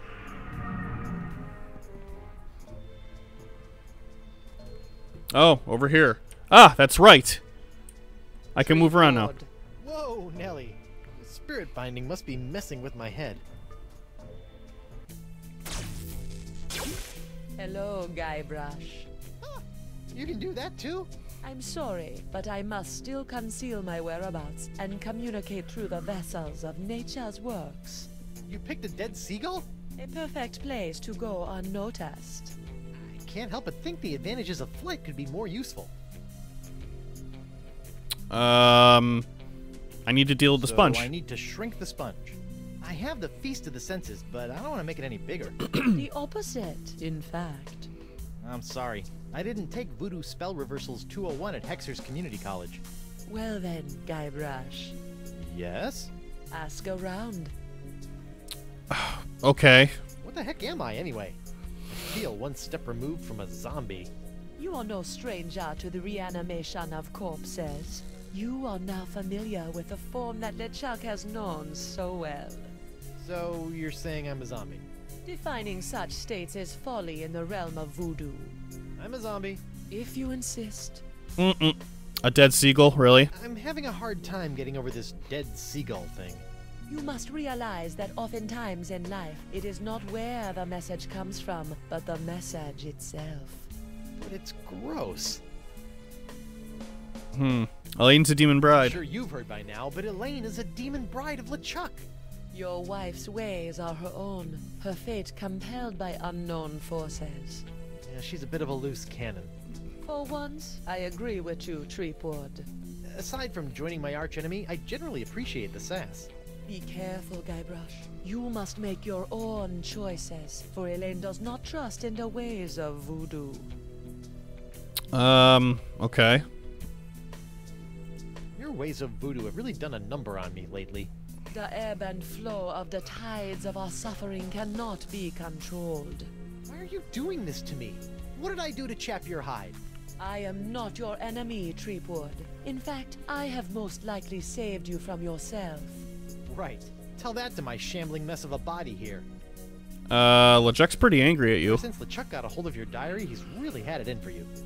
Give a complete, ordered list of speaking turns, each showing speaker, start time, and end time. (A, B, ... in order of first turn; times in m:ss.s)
0:05.3-0:07.4 A
0:08.5-0:09.3 A
0:08.6-0:09.5 B
0:09.8-0:13.4 C
0:17.6-0:19.1 B
0:19.4-0:21.1 C
0:21.4-0:28.1 B
0:28.4-0:29.7 C
0:30.0-0:32.6 B
0:33.0-0:35.9 C
0:38.3-0:39.3 A
0:40.0-0:41.1 A
0:40.6-0:45.6 C
0:45.8-0:47.9 B
0:48.4-0:52.8 C
0:53.3-0:55.0 B
0:55.4-0:56.1 C
0:56.5-0:57.5 B
0:58.9-1:00.0 A
1:00.2-1:01.4 C
1:01.9-1:04.1 C
1:04.6-1:12.7 B
1:13.2-1:14.9 C
1:15.2-1:18.6 B
1:19.0-1:19.6 C
1:19.9-1:21.0 B
1:21.4-1:23.3 A
1:23.3-1:26.4 C
1:26.9-1:33.7 B
1:34.2-1:35.4 C
1:37.3-1:39.0 A
1:38.7-1:42.0 C
1:42.5-1:47.6 B
1:48.0-1:49.5 C
1:50.0-1:52.7 B
1:53.1-1:56.3 C
1:56.7-2:03.7 B
2:05.1-2:06.4 A
2:08.6-2:11.1 C
2:11.5-2:16.3 B
2:16.7-2:19.8 C
2:20.2-2:26.0 B
2:26.5-2:29.3 C
2:30.1-2:31.8 A
2:31.6-2:34.5 C